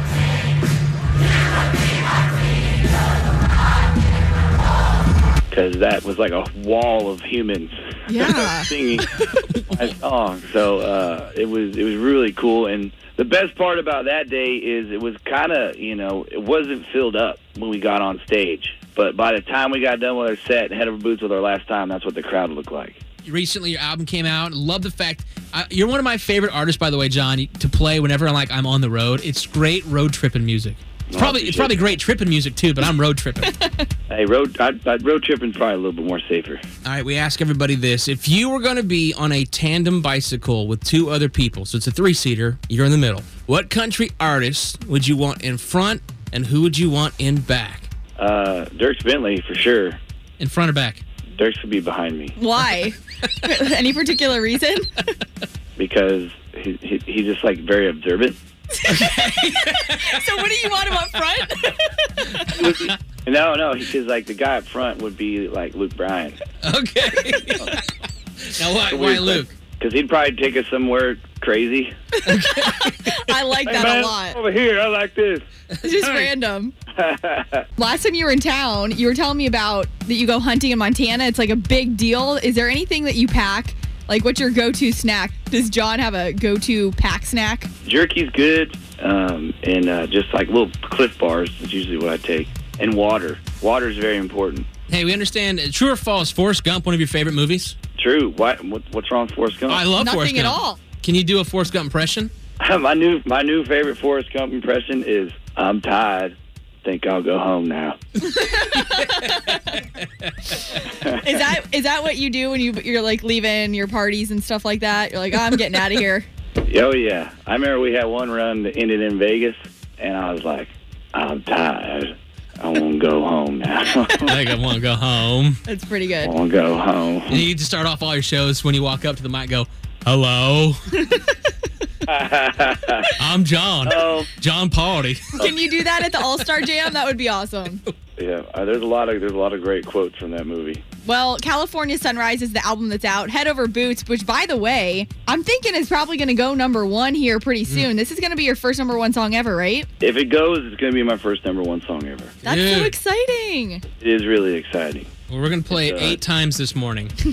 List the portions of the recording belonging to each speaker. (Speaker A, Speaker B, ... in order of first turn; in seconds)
Speaker A: 5.5-9.1, 9.7-23.0, 31.1-31.8, 34.1-36.6, 48.2-50.0, 51.4-52.4, 55.8-58.4, 62.5-66.4, 68.9-71.9, 73.6-75.4, 77.0-77.7, 87.8-94.7, 98.0-99.8, 102.6-108.0, 110.9-111.3, 116.6-124.4, 126.2-127.4, 132.1-133.1, 133.8-134.3, 138.2-140.8, 150.0-152.3, 154.0-155.1, 155.7-156.2
Speaker B: 8.1-9.0, 33.4-33.9, 52.4-55.0, 58.8-62.6, 72.2-74.4, 75.8-76.7, 77.8-87.7, 99.9-100.8, 108.2-109.8, 111.0-116.3, 125.7-126.3, 135.3-137.8, 141.0-149.9, 152.4-153.8
Speaker C: 23.2-33.5, 36.8-47.9, 50.4-51.0, 58.9-60.1, 62.3-62.9, 66.6-67.8, 68.4-69.5, 72.3-73.2, 75.7-76.3, 94.9-97.8, 99.7-102.3, 108.5-110.8, 124.2-125.6, 127.3-130.8, 133.2-135.5, 152.4-152.9, 155.3-157.1